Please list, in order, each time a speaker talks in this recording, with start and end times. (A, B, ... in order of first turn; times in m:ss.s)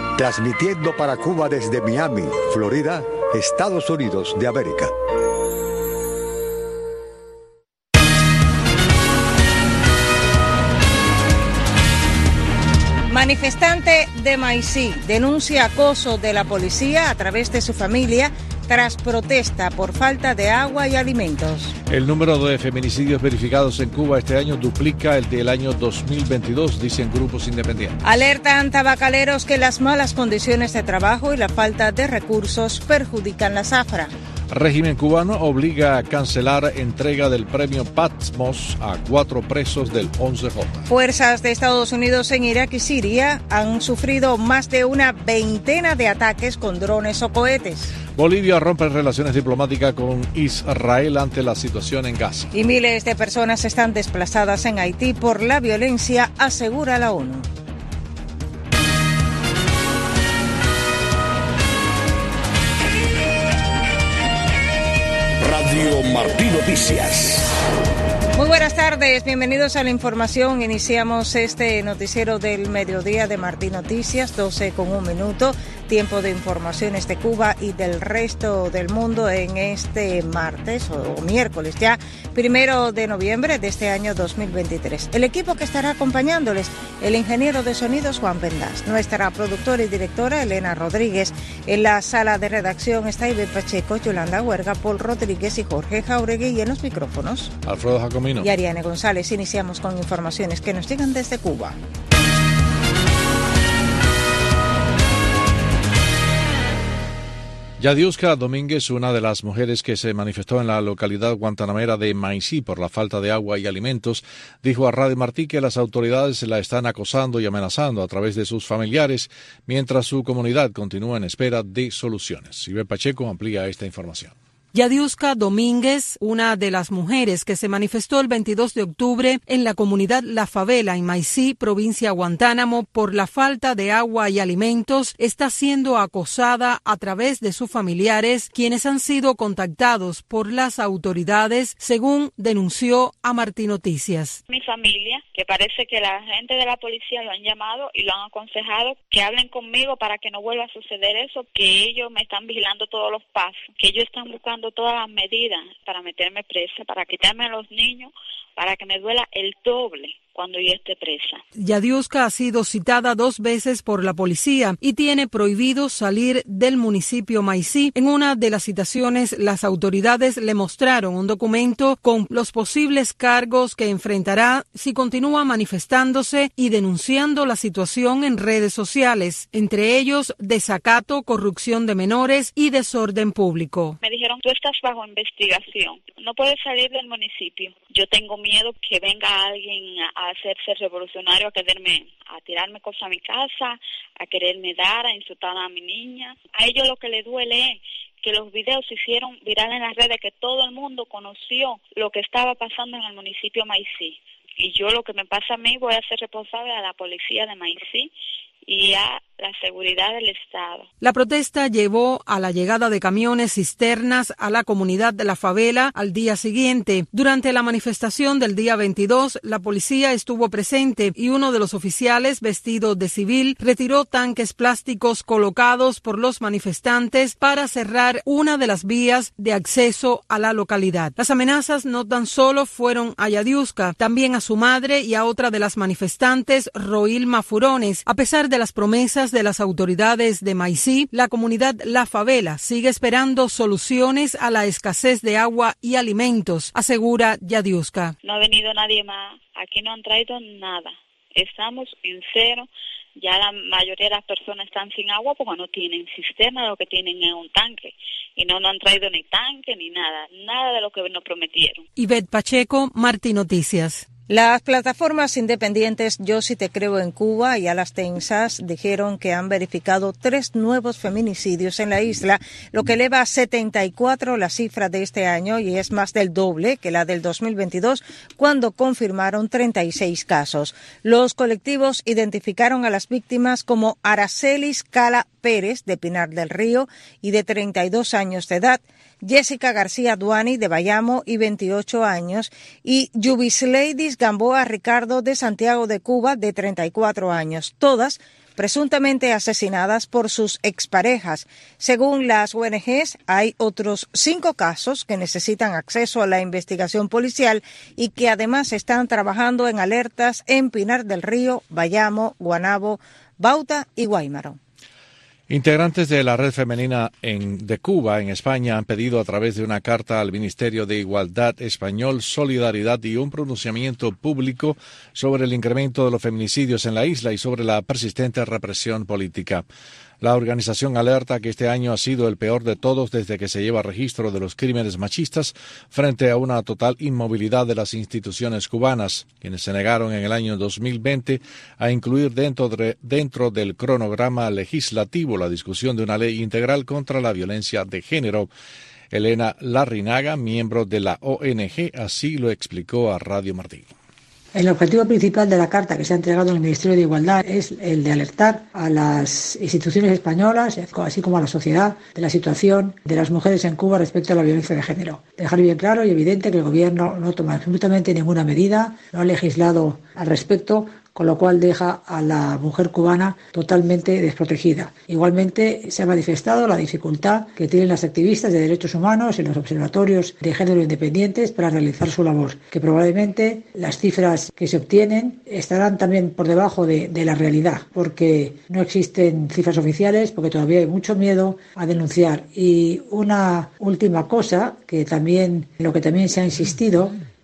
0:00.2-0:04.9 A
0:13.1-0:21.7 B
0:21.9-0:28.0 C
0:28.0-0:34.1 B
0:34.5-0:40.9 C
0:40.9-0:47.9 B
0:48.1-0:52.5 C
0:52.5-0:57.5 B
1:05.4-1:07.5 D
1:08.3-1:37.5 B
1:37.6-1:38.5 C
1:38.4-1:41.8 B
1:47.8-2:04.3 C
2:04.7-2:24.4 E
2:24.5-2:41.4 F
2:41.6-3:04.0 E
3:04.0-3:28.1 F
3:28.6-3:30.9 F
3:31.0-4:08.1 E
4:08.2-4:21.8 F
4:22.0-4:24.0 E
4:24.3-5:14.6 B
5:15.5-5:29.6 C
5:30.2-5:48.5 C
5:49.1-5:53.9 C
5:54.5-6:37.2 G